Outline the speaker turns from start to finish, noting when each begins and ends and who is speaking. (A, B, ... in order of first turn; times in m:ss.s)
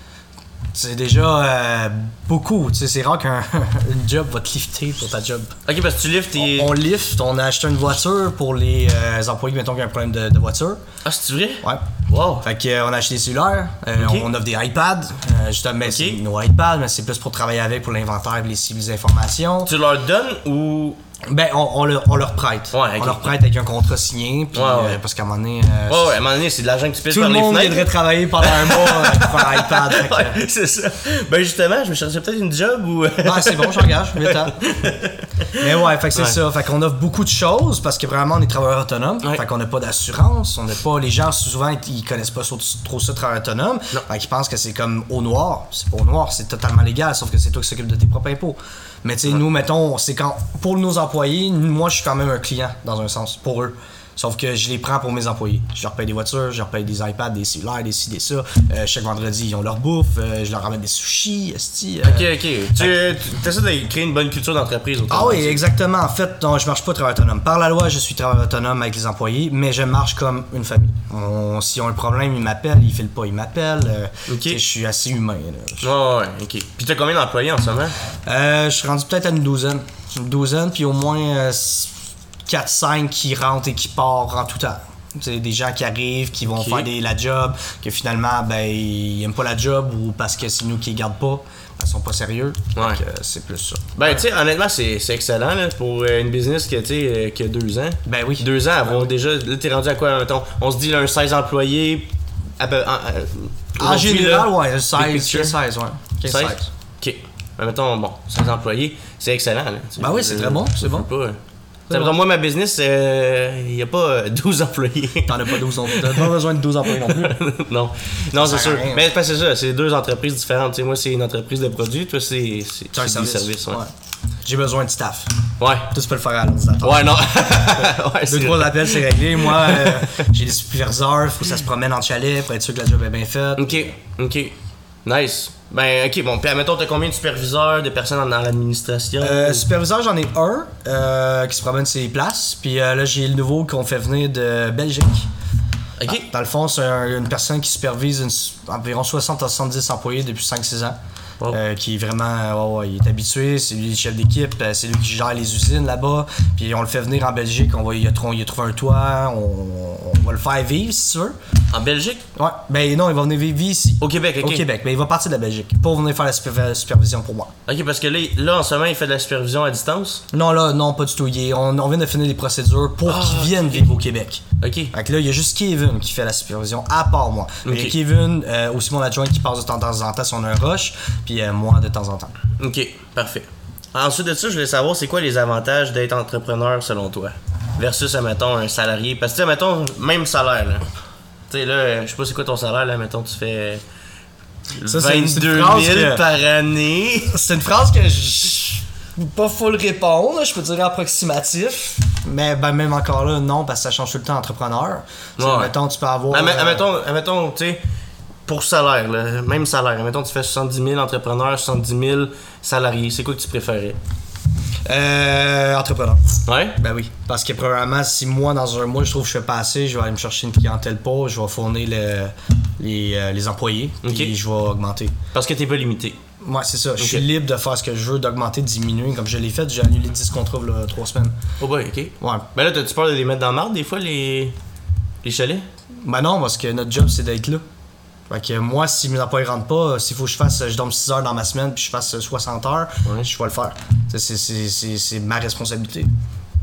0:00.7-0:05.5 A
0:05.7-0:06.7 B
0:06.4-0:10.8 A
0:11.0-0:12.5 B
0:12.4-0:19.7 A
0:14.0-0:14.3 B
0:15.8-0:16.2 B
0:19.7-0:21.0 B
0:21.3-0:26.2 A
0:22.7-0:23.4 B
0:24.5-0:25.0 B
0:25.9-0:36.4 B
0:27.1-0:30.4 A
0:33.2-0:34.6 A
0:35.6-1:03.0 A
1:02.0-1:05.7 B
1:05.1-1:15.9 A
1:14.3-1:14.6 B
1:15.8-1:18.0 B
1:18.3-1:22.0 A
1:22.5-1:34.2 A
1:26.6-1:26.9 B
1:32.8-1:33.0 B
1:34.0-1:45.5 B
1:38.0-1:39.1 A
1:43.8-1:46.7 A
1:46.3-1:51.4 B
1:50.0-1:51.1 A
1:51.9-1:52.2 A
1:51.9-1:56.3 B
1:55.3-1:57.4 A
1:56.8-2:03.8 B
1:58.4-1:59.0 A
2:02.9-2:03.9 A
2:04.4-2:05.3 A
2:05.6-2:05.9 B
2:05.9-2:13.9 A
2:06.8-2:10.3 B
2:13.6-2:19.7 B
2:19.2-2:25.3 A
2:26.0-2:26.3 B
2:26.1-2:31.0 A
2:31.5-2:41.4 A
2:41.7-2:42.2 B
2:42.4-2:47.5 A
2:44.0-2:44.6 B
2:47.7-2:50.2 B
2:50.3-3:02.3 A
2:53.1-2:53.9 B
2:54.6-2:54.9 B
2:57.6-2:58.0 B
3:02.6-3:10.8 B
3:11.5-3:13.8 B
3:14.8-3:17.4 B
3:14.9-3:16.2 A
3:17.3-3:26.9 A
3:25.4-3:25.7 B
3:26.3-3:27.8 B
3:28.5-3:34.0 B
3:34.8-3:45.1 A
3:36.5-3:36.8 B
3:44.0-3:44.3 B
3:45.3-3:46.2 B
3:46.4-3:51.4 A
3:47.0-3:47.2 B
3:51.6-3:54.6 B
3:55.2-3:55.7 B
3:56.0-3:57.6 A
3:58.3-4:06.1 A